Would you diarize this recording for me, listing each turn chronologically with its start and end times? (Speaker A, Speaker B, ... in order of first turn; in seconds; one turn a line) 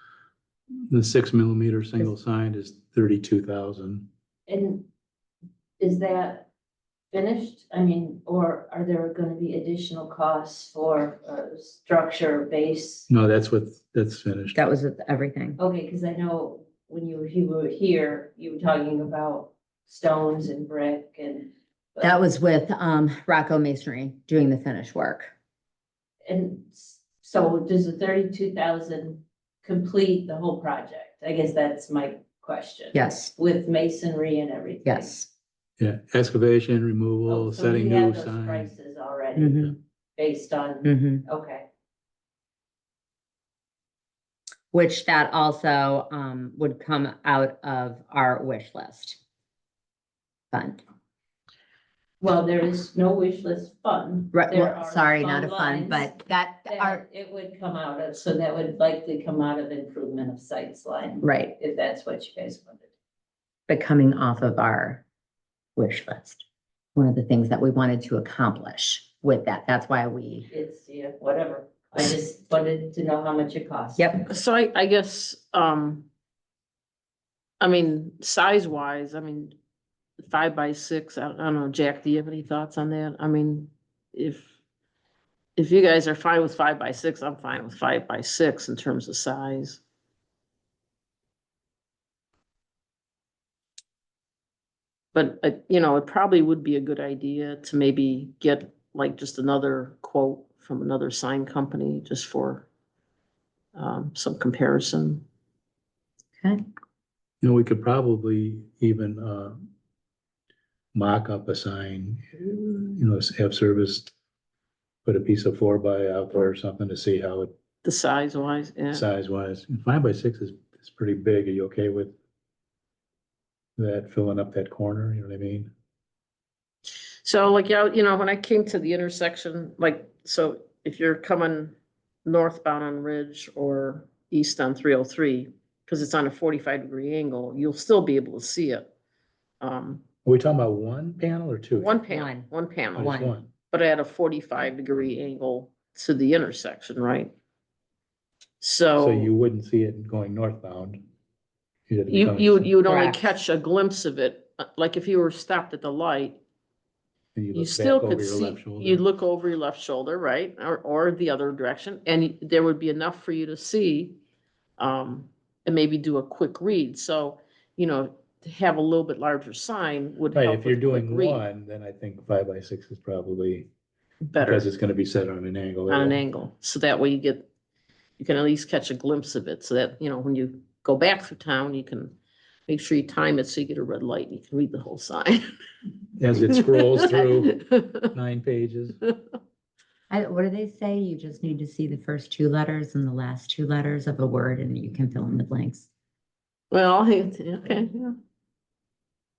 Speaker A: 0.9-4.1
Speaker B: 4.5-4.9
Speaker B: 5.8-6.5
Speaker B: 7.1-13.1
Speaker A: 13.1-14.6
Speaker C: 14.5-15.6
Speaker B: 15.6-22.2
Speaker C: 22.0-25.3
Speaker B: 26.3-35.3
Speaker C: 32.9-33.3
Speaker C: 34.8-35.2
Speaker A: 35.8-38.7
Speaker B: 37.3-37.8
Speaker D: 37.4-39.2
Speaker B: 38.4-41.6
Speaker C: 39.4-39.7
Speaker C: 40.8-41.2
Speaker C: 44.7-49.2
Speaker C: 50.5-50.8
Speaker B: 52.2-62.9
Speaker C: 54.3-57.0
Speaker C: 61.2-61.5
Speaker C: 63.7-65.0
Speaker C: 65.8-66.4
Speaker C: 66.9-70.5
Speaker B: 70.5-74.2
Speaker C: 74.0-74.2
Speaker D: 74.3-76.1
Speaker D: 77.6-79.5
Speaker D: 80.2-84.5
Speaker D: 85.6-89.8
Speaker D: 95.1-102.7
Speaker D: 103.7-105.2
Speaker A: 107.4-109.6
Speaker A: 110.9-114.1
Speaker A: 115.0-117.5
Speaker D: 117.8-119.0
Speaker A: 118.9-122.1
Speaker A: 123.8-125.7
Speaker D: 127.2-138.9
Speaker D: 139.6-140.0
Speaker A: 140.2-141.9
Speaker D: 141.7-147.3
Speaker C: 142.1-142.5
Speaker A: 142.9-143.5
Speaker C: 143.0-143.3
Speaker D: 148.6-149.3
Speaker A: 149.0-151.0
Speaker A: 151.9-152.7
Speaker D: 152.1-156.4
Speaker C: 152.8-153.3
Speaker A: 157.3-159.0
Speaker D: 157.5-164.2
Speaker D: 164.8-171.4
Speaker A: 170.3-173.7
Speaker D: 174.3-174.7
Speaker A: 174.4-176.2
Speaker D: 175.9-177.4
Speaker D: 178.2-182.2
Speaker D: 182.7-185.4
Speaker A: 186.2-187.6
Speaker D: 186.6-188.0
Speaker A: 188.1-189.0
Speaker C: 190.1-195.9
Speaker D: 196.7-198.2